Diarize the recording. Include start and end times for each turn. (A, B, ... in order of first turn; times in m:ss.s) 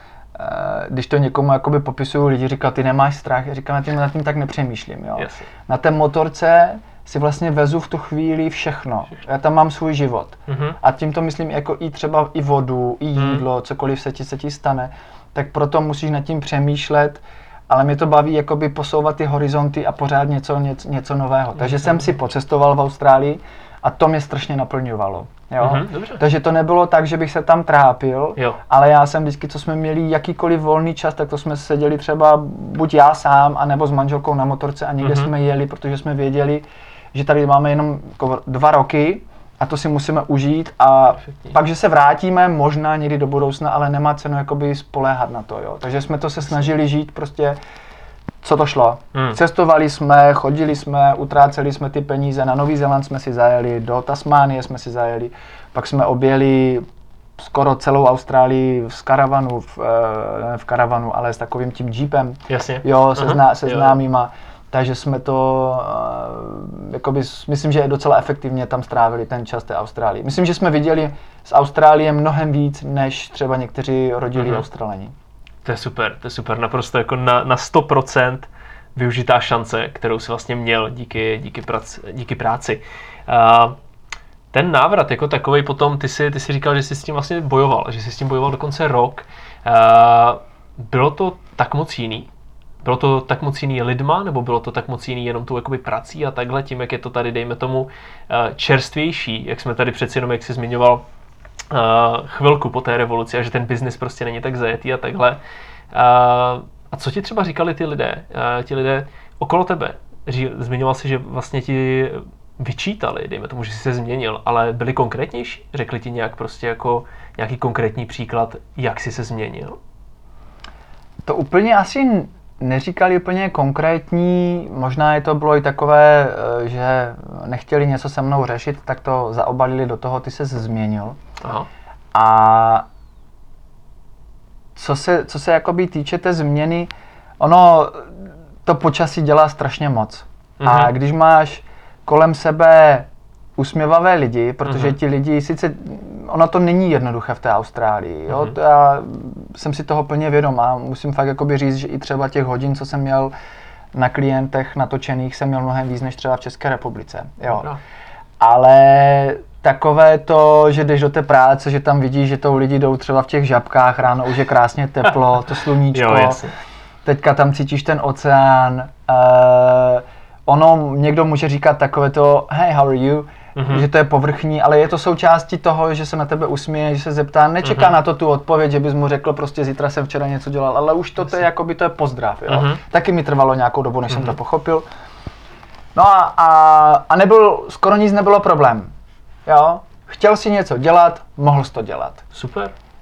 0:00.3-0:47.6 A
0:05.2-0:05.5 B
0:10.5-0:10.8 B
0:13.2-0:13.4 B
0:21.6-0:22.0 B
0:25.6-0:26.2 B
0:35.0-0:35.3 B
0:41.2-0:41.6 B
0:48.4-0:56.8 A
0:49.1-0:49.4 B
0:57.4-1:15.1 A
1:02.5-1:04.0 B
1:14.4-1:14.6 B
1:15.6-1:23.8 B
1:24.5-1:32.3 B
1:32.8-1:41.0 B
1:41.7-1:45.4 B
1:45.9-1:59.8 B
2:01.2-2:11.2 A
2:11.4-2:11.7 B
2:12.1-2:12.9 A
2:14.8-2:33.3 A
2:20.6-2:20.9 B
2:24.6-2:25.0 B
2:28.3-2:28.5 B
2:33.9-2:37.7 A
2:37.5-2:37.8 B
2:38.4-2:46.4 A
2:45.9-2:46.5 B
2:47.0-3:04.8 A
2:53.5-2:53.9 B
2:57.6-2:57.9 B
3:02.5-3:02.8 B
3:04.1-3:04.3 B
3:05.9-3:08.9 A
3:09.4-3:12.2 A
3:12.3-3:12.7 B